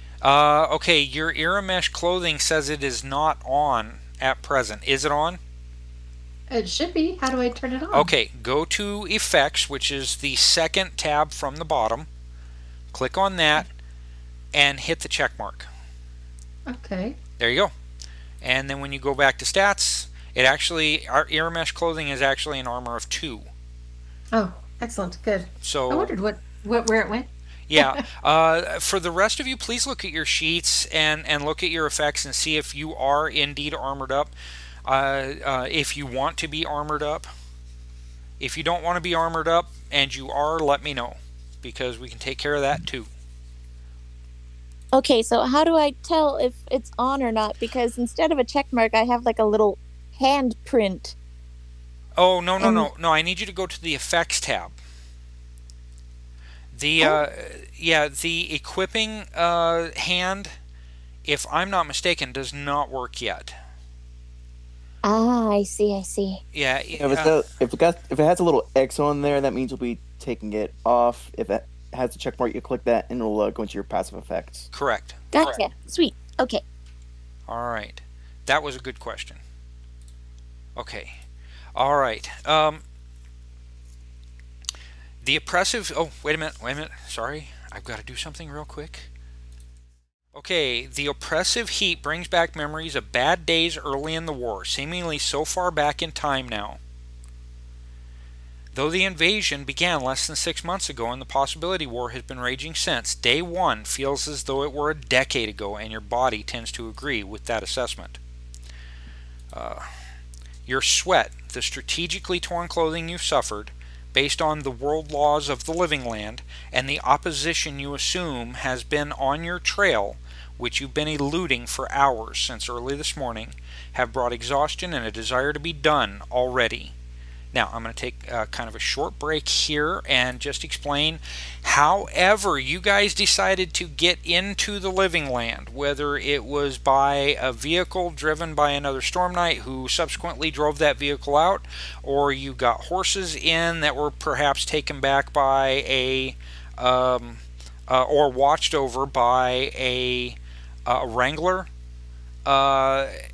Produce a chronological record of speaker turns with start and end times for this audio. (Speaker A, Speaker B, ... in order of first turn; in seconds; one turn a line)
Speaker A: 0.2-5.4
Speaker B: 6.5-8.1
Speaker A: 7.9-12.1
Speaker A: 12.9-13.7
Speaker A: 14.5-15.7
Speaker B: 16.7-17.2
Speaker A: 17.4-17.7
Speaker A: 18.4-23.5
Speaker B: 24.3-28.0
Speaker A: 25.6-26.1
Speaker A: 27.7-34.3
Speaker A: 34.8-37.3
Speaker A: 38.4-43.1
Speaker C: 44.9-51.1
Speaker A: 52.2-54.7
Speaker C: 52.6-52.9
Speaker A: 56.7-60.5
Speaker A: 61.2-63.5
Speaker C: 65.0-66.4
Speaker A: 66.5-67.4
Speaker D: 67.0-74.7
Speaker A: 74.7-75.5
Speaker C: 75.3-76.6
Speaker A: 77.5-79.4
Speaker A: 80.8-81.2
Speaker A: 81.7-82.8
Speaker A: 85.2-89.1
Speaker A: 90.3-96.8
Speaker A: 98.7-108.2
Speaker A: 109.5-109.9
Speaker A: 110.7-126.9
Speaker A: 127.5-151.7
Speaker A: 152.4-153.2